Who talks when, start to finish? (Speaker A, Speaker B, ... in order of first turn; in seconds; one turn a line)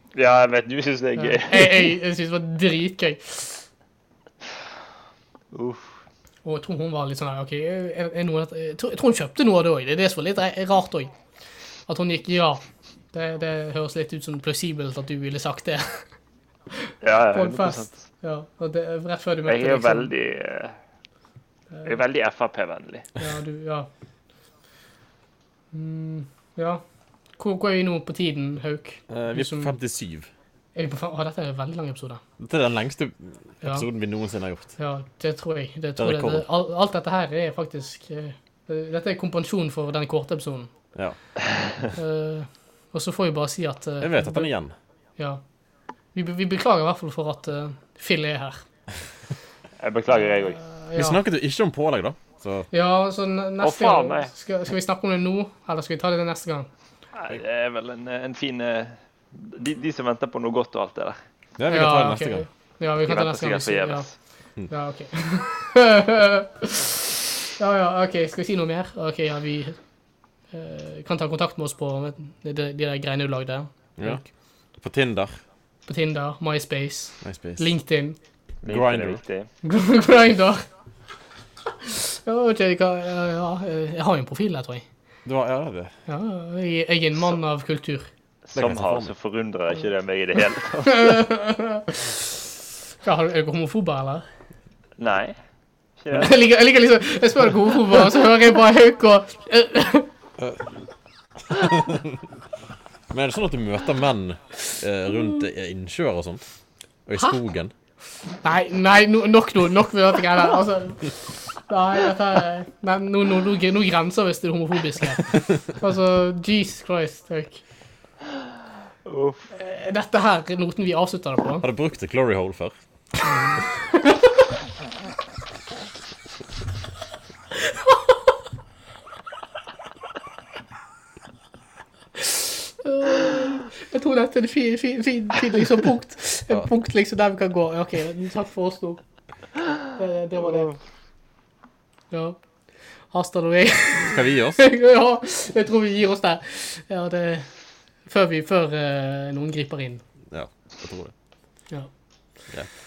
Speaker A: 0.1-1.9
Speaker B: 1.2-3.7
Speaker A: 5.5-5.9
Speaker B: 6.5-11.1
Speaker B: 11.9-16.1
Speaker B: 16.7-20.1
Speaker A: 17.0-18.0
Speaker A: 19.5-20.8
Speaker A: 21.8-23.1
Speaker B: 23.2-23.9
Speaker B: 25.7-26.8
Speaker B: 27.4-29.8
Speaker C: 29.1-30.3
Speaker B: 30.8-32.2
Speaker C: 32.4-34.7
Speaker B: 33.6-33.9
Speaker B: 34.8-40.7
Speaker C: 36.0-36.5
Speaker B: 41.9-44.5
Speaker C: 44.0-44.7
Speaker B: 46.1-48.6
Speaker A: 49.8-50.6
Speaker B: 50.6-51.2
Speaker C: 51.0-52.7
Speaker B: 52.7-56.7
Speaker A: 53.6-54.3
Speaker A: 57.1-61.2
Speaker C: 61.6-62.5
Speaker B: 61.7-64.1
Speaker A: 63.0-64.1
Speaker B: 64.7-69.8
Speaker B: 70.5-74.3
Speaker C: 74.0-74.2
Speaker C: 74.8-75.4
Speaker B: 75.9-78.2
Speaker C: 77.2-77.7
Speaker C: 78.6-79.2
Speaker A: 78.6-79.5
Speaker B: 79.6-80.7
Speaker B: 81.8-84.9
Speaker C: 85.2-85.9
Speaker B: 86.1-88.1
Speaker A: 88.5-91.2
Speaker C: 88.5-89.1
Speaker B: 90.8-92.5
Speaker B: 93.0-94.3
Speaker A: 95.0-95.4
Speaker A: 96.0-96.3
Speaker B: 96.1-100.1
Speaker C: 100.4-100.6
Speaker C: 101.5-102.2
Speaker C: 103.1-106.4
Speaker C: 107.1-107.7
Speaker B: 108.4-117.6
Speaker A: 119.0-119.5
Speaker B: 119.5-121.7
Speaker C: 121.6-122.8
Speaker B: 123.2-124.4
Speaker B: 127.6-128.0
Speaker B: 132.2-139.0
Speaker B: 139.9-140.7
Speaker A: 140.4-140.8
Speaker B: 142.1-142.4
Speaker B: 143.1-147.5
Speaker C: 144.0-144.6
Speaker B: 148.1-150.0
Speaker C: 150.3-151.1